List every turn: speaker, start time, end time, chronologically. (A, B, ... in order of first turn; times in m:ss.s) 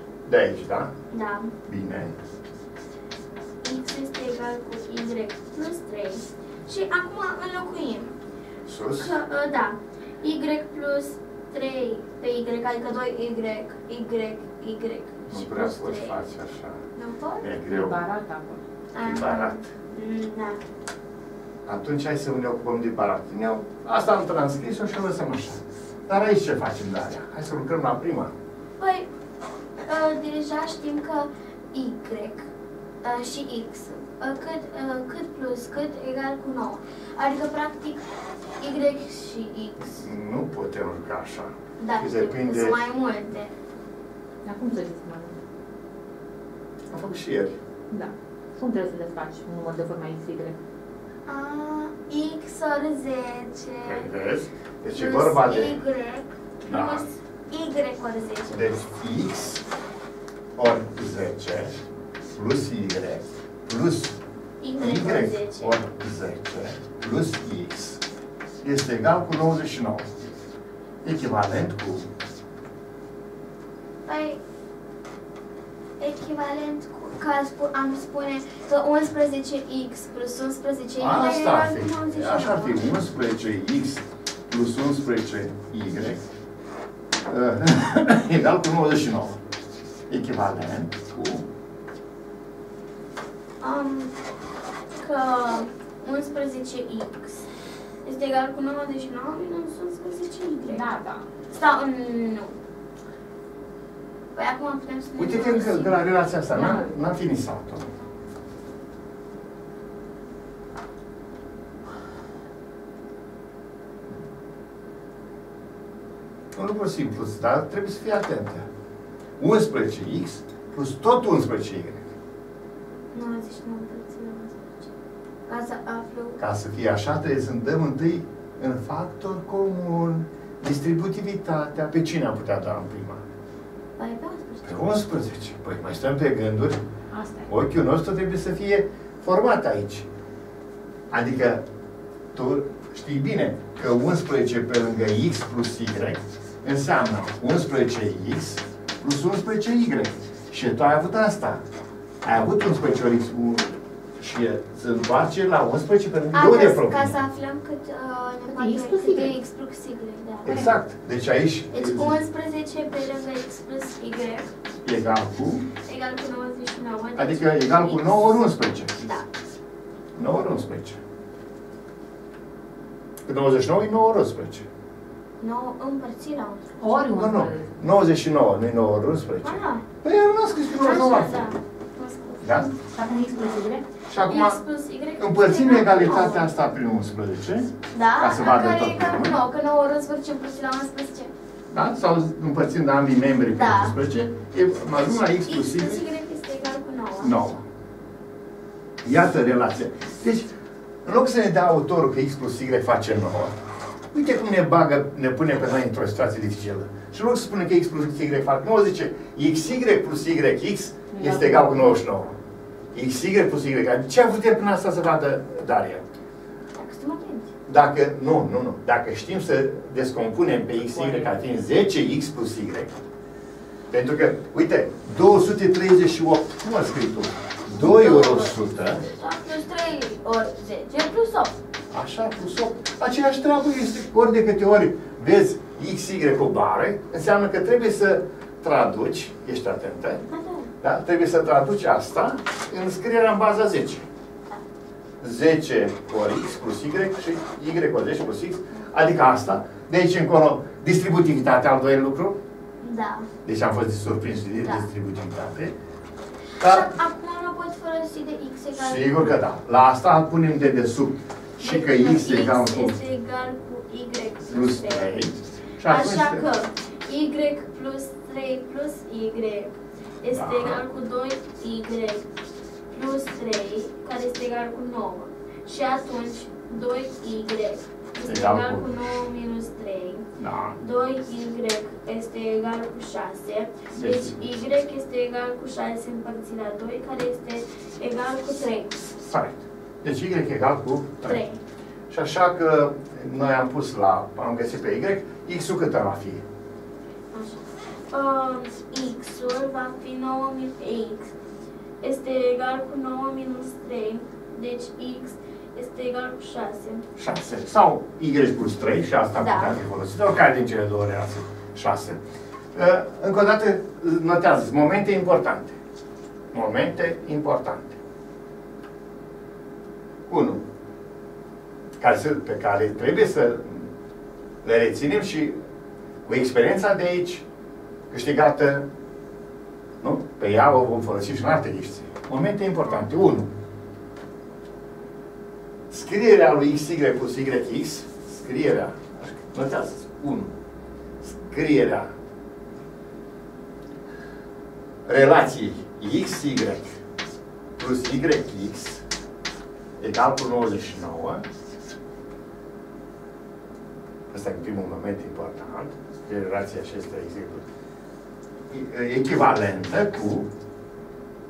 0:00.2-0:00.9 A
0:01.1-0:01.5 B
0:01.6-0:02.1 A
0:03.6-0:08.1 B
0:08.6-0:09.2 A
0:09.0-0:16.2 B
0:15.3-0:16.8 A
0:16.9-0:17.4 B
0:17.4-0:18.0 A
0:17.6-0:18.6 C
0:18.9-0:20.6 B
0:19.0-0:19.6 A
0:21.6-0:28.3 A
0:28.8-0:29.1 B
0:29.8-0:32.5 B
0:33.0-0:38.0 B
0:38.6-0:40.0 B
0:39.9-0:42.8 A
0:41.8-0:43.5 B
0:44.4-0:45.3 C
0:46.9-0:47.6 A
0:47.9-0:50.6 C
0:51.3-0:54.1 B
0:53.8-0:55.8 A
0:54.9-0:58.6 B
0:56.7-0:57.1 A
0:58.5-0:59.6 A
1:00.6-1:01.8 A
1:02.3-1:04.2 A
1:04.6-1:05.8 B
1:04.8-1:08.0 A
1:08.6-1:10.1 A
1:11.0-1:12.1 A
1:14.0-1:14.4 B
1:16.0-1:22.9 B
1:21.0-1:26.2 A
1:27.2-1:29.4 A
1:30.1-1:31.5 A
1:33.6-1:34.1 B
1:35.0-1:37.4 B
1:38.0-1:40.8 B
1:40.7-1:41.2 C
1:41.5-1:42.6 B
1:44.3-1:47.0 B
1:45.2-1:47.8 A
1:56.5-1:58.7 A
1:59.4-2:02.1 A
2:03.1-2:04.9 B
2:05.5-2:06.4 B
2:06.4-2:13.2 A
2:14.0-2:14.9 B
2:14.6-2:16.8 A
2:17.1-2:17.5 C
2:17.5-2:20.1 A
2:21.1-2:21.6 A
2:22.3-2:31.6 A
2:32.2-2:37.2 A
2:36.3-2:40.6 B
2:38.5-2:39.4 C
2:40.4-2:42.2 A
2:41.7-2:44.5 B
2:44.8-2:45.6 A
2:45.8-2:48.1 B
2:47.2-2:48.9 A
2:49.0-2:49.2 B
2:50.1-2:51.0 A
2:53.2-2:54.6 A
2:55.4-2:57.0 B
2:56.8-2:57.7 C
2:57.1-3:01.5 A
2:59.4-2:59.8 B
3:00.8-3:02.7 B
3:02.4-3:02.7 A
3:02.8-3:03.8 C
3:04.1-3:04.6 A
3:04.2-3:06.4 B
3:05.2-3:09.4 A
3:07.9-3:11.3 B
3:11.7-3:16.0 A
3:13.5-3:14.0 B
3:15.4-3:17.3 B
3:17.2-3:17.6 A
3:19.0-3:20.5 A
3:21.0-3:23.5 A
3:24.1-3:32.4 A
3:31.1-3:32.0 C
3:32.9-3:36.0 A
3:36.8-3:37.5 B
3:37.6-3:43.0 A
3:40.9-3:41.3 C
3:43.9-3:49.0 A
3:47.7-3:51.5 B
3:51.9-4:00.2 A
4:00.3-4:00.7 B
4:00.8-4:04.0 A
4:05.2-4:12.4 A
4:12.8-4:13.3 B
4:13.4-4:15.7 A
4:14.6-4:14.8 B
4:16.6-4:19.3 B
4:16.6-4:16.9 A
4:18.7-4:23.0 A
4:21.6-4:25.1 B
4:24.5-4:26.4 A
4:25.8-4:32.2 B
4:30.3-4:30.8 A
4:32.9-4:40.3 B
4:38.2-4:39.1 A
4:40.4-4:40.8 A
4:40.8-4:49.1 B
4:43.9-4:44.6 A
4:49.2-4:51.4 A
4:51.2-4:51.6 B
4:52.1-4:56.4 A
4:57.3-5:01.3 B
5:02.0-5:07.0 B
5:07.2-5:12.2 A
5:09.4-5:09.8 B
5:12.7-5:15.8 A
5:16.5-5:18.0 A
5:20.3-5:20.6 A
5:22.0-5:23.9 A
5:24.6-5:25.6 A
5:26.2-5:27.4 A
5:28.1-5:28.9 A
5:30.0-5:33.5 A
5:35.9-5:40.5 A
5:41.2-5:42.1 A
5:45.0-5:46.9 A
5:47.8-5:49.0 A
5:50.0-5:51.4 A
5:54.3-5:57.6 A
5:58.7-6:00.5 A